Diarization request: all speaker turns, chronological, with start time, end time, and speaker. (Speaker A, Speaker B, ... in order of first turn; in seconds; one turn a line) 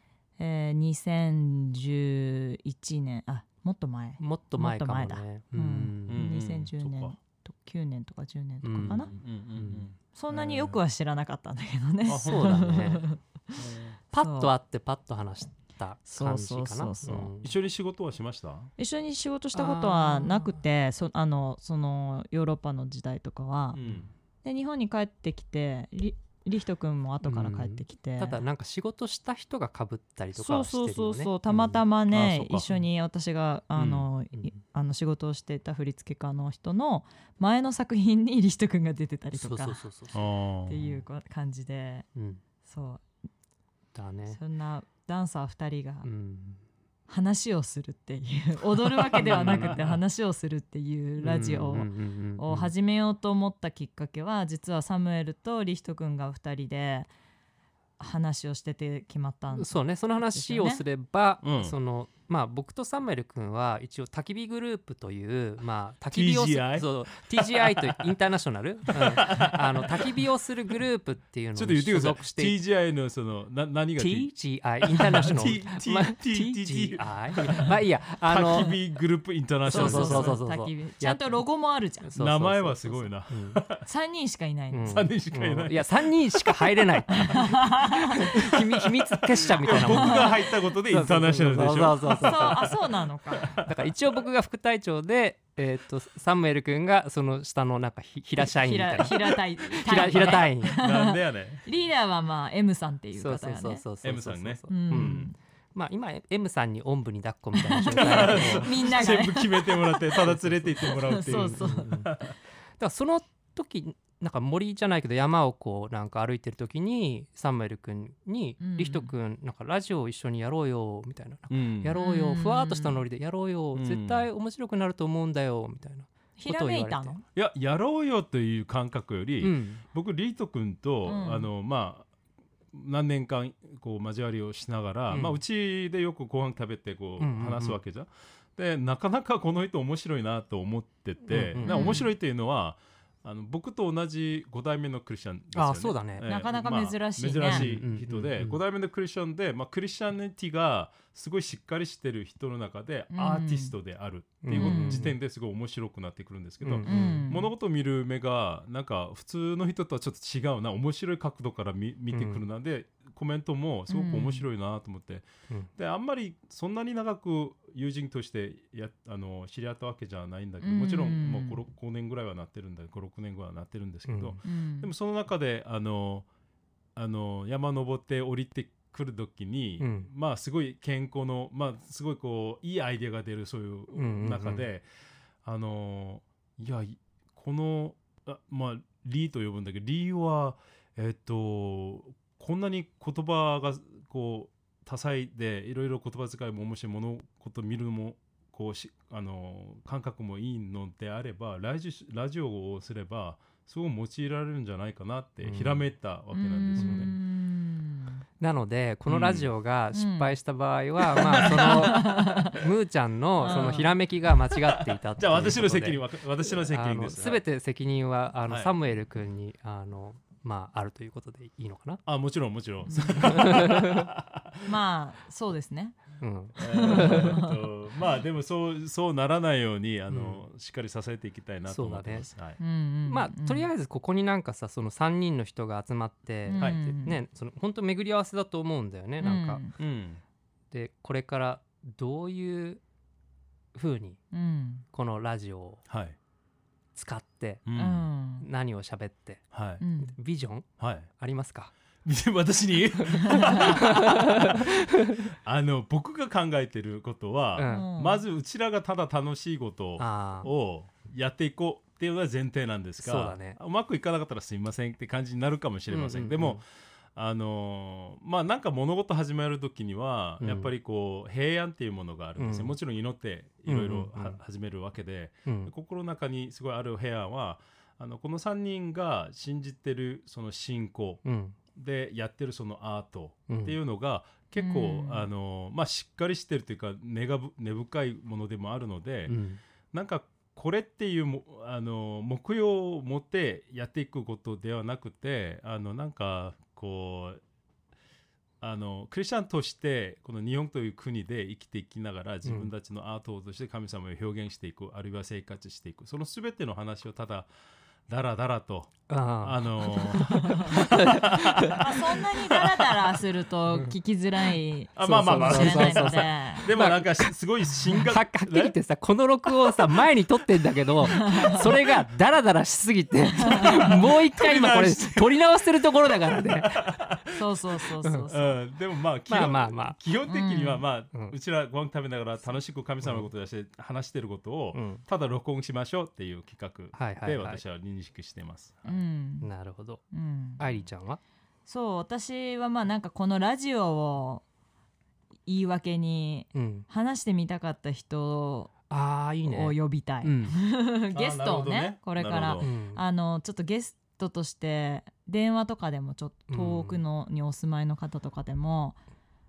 Speaker A: 0.4-9.1
Speaker B: 4.2-6.2
Speaker C: 6.1-7.2
Speaker B: 8.6-9.9
Speaker C: 8.9-10.8
Speaker A: 10.1-13.5
Speaker C: 12.0-12.9
Speaker B: 12.1-13.0
Speaker C: 13.5-14.0
Speaker B: 14.1-17.5
Speaker A: 14.1-14.5
Speaker A: 16.1-17.3
Speaker C: 17.4-18.7
Speaker A: 18.8-23.8
Speaker B: 19.5-20.6
Speaker C: 23.7-24.1
Speaker A: 24.4-28.4
Speaker B: 27.2-31.8
Speaker A: 30.3-39.8
Speaker C: 32.1-32.7
Speaker C: 33.8-34.0
Speaker B: 34.3-34.6
Speaker B: 39.3-40.2
Speaker C: 40.1-40.8
Speaker A: 40.7-42.1
Speaker B: 42.1-42.4
Speaker A: 42.6-43.0
Speaker B: 43.9-44.4
Speaker A: 44.3-46.1
Speaker B: 46.0-46.6
Speaker A: 47.1-57.1
Speaker C: 49.0-49.9
Speaker B: 49.2-49.9
Speaker B: 51.2-52.7
Speaker A: 58.0-60.8
Speaker B: 59.5-72.6
Speaker C: 61.4-61.8
Speaker C: 66.1-68.1
Speaker C: 68.9-70.2
Speaker C: 71.5-74.3
Speaker B: 74.0-78.8
Speaker C: 74.8-80.4
Speaker A: 79.7-82.1
Speaker B: 79.7-81.4
Speaker B: 82.0-83.6
Speaker C: 82.1-83.8
Speaker A: 83.8-85.0
Speaker B: 84.7-92.6
Speaker C: 84.9-86.9
Speaker A: 87.2-88.1
Speaker C: 88.3-92.8
Speaker A: 89.7-90.3
Speaker A: 92.2-93.6
Speaker C: 93.3-93.9
Speaker B: 93.6-100.8
Speaker A: 98.4-103.8
Speaker C: 100.0-101.7
Speaker B: 103.2-105.2
Speaker C: 104.0-105.3
Speaker A: 104.7-105.3
Speaker B: 105.7-109.1
Speaker A: 107.7-110.2
Speaker C: 107.9-112.4
Speaker B: 110.2-110.7
Speaker A: 110.8-112.0
Speaker B: 111.2-112.1
Speaker B: 112.8-127.2
Speaker A: 118.6-119.1
Speaker C: 121.5-122.0
Speaker A: 122.0-123.0
Speaker C: 123.7-124.3
Speaker A: 126.4-127.2
Speaker C: 127.3-132.1
Speaker B: 129.4-129.8
Speaker A: 131.0-131.5
Speaker C: 132.7-176.3
Speaker B: 135.1-135.4
Speaker B: 137.2-137.8
Speaker B: 141.3-142.0
Speaker A: 141.6-142.1
Speaker B: 145.5-146.2
Speaker A: 146.2-147.7
Speaker B: 147.4-148.6
Speaker A: 153.1-153.7
Speaker B: 154.4-155.2
Speaker A: 154.5-155.0
Speaker B: 156.6-157.2
Speaker A: 156.8-157.5
Speaker B: 162.1-162.4
Speaker A: 163.9-164.4
Speaker A: 170.6-171.6
Speaker B: 174.1-174.4
Speaker A: 174.4-174.9
Speaker C: 176.9-184.9
Speaker B: 179.8-180.1
Speaker B: 183.9-184.6
Speaker C: 185.4-207.1
Speaker B: 205.4-205.9
Speaker A: 206.3-208.2
Speaker B: 206.8-207.1
Speaker B: 208.4-222.0
Speaker C: 209.1-209.5
Speaker A: 209.9-210.3
Speaker C: 211.2-212.2
Speaker A: 211.2-212.6
Speaker A: 213.4-213.9
Speaker C: 213.4-213.8
Speaker C: 214.5-217.4
Speaker C: 218.5-218.7
Speaker C: 222.1-224.7
Speaker A: 222.9-223.2
Speaker B: 223.2-224.1
Speaker A: 224.6-226.0
Speaker B: 226.2-227.4
Speaker C: 226.6-232.6
Speaker A: 226.6-227.5
Speaker B: 230.1-230.4
Speaker B: 231.7-232.3
Speaker A: 232.6-233.7
Speaker B: 233.1-239.6
Speaker A: 236.5-237.2
Speaker A: 239.2-239.7
Speaker C: 239.8-240.2
Speaker B: 240.7-242.8
Speaker B: 243.7-244.2
Speaker A: 244.3-244.8
Speaker B: 244.9-245.8
Speaker C: 245.9-246.2
Speaker B: 246.9-247.7
Speaker C: 247.7-248.1
Speaker A: 247.7-248.4
Speaker B: 248.4-251.7
Speaker C: 249.5-249.8
Speaker A: 249.8-250.1
Speaker C: 250.8-251.1
Speaker C: 252.0-254.7
Speaker A: 253.2-253.7
Speaker B: 253.3-255.3
Speaker C: 255.2-281.2
Speaker B: 257.6-257.9
Speaker A: 257.7-258.2
Speaker B: 260.0-260.5
Speaker B: 263.0-263.6
Speaker B: 265.9-266.6
Speaker B: 270.4-270.7
Speaker B: 272.4-272.7
Speaker B: 273.6-274.4
Speaker B: 275.4-275.7
Speaker B: 281.2-281.6
Speaker C: 281.7-289.4
Speaker B: 283.5-283.8
Speaker A: 284.6-285.3
Speaker B: 289.3-289.6
Speaker C: 289.9-297.4
Speaker C: 298.6-307.5
Speaker B: 302.4-302.7
Speaker C: 308.1-312.9
Speaker B: 309.1-311.8
Speaker A: 310.3-310.7
Speaker A: 311.7-316.7
Speaker C: 314.9-318.7
Speaker B: 315.0-326.9
Speaker C: 319.4-320.1
Speaker C: 321.0-321.9
Speaker A: 321.1-321.6
Speaker A: 323.4-323.9
Speaker C: 323.5-327.5
Speaker A: 327.3-328.6
Speaker C: 328.3-339.0
Speaker B: 329.3-330.0
Speaker A: 330.3-330.8
Speaker B: 333.0-333.3
Speaker B: 334.7-335.0
Speaker B: 336.9-337.6
Speaker A: 338.8-339.5
Speaker B: 339.4-340.1
Speaker A: 340.1-340.6
Speaker B: 340.6-341.2
Speaker A: 341.7-344.4
Speaker A: 345.4-348.7
Speaker B: 346.5-346.9
Speaker B: 348.9-350.6
Speaker A: 349.4-359.0
Speaker C: 351.1-352.7
Speaker B: 352.6-353.0
Speaker B: 356.5-357.0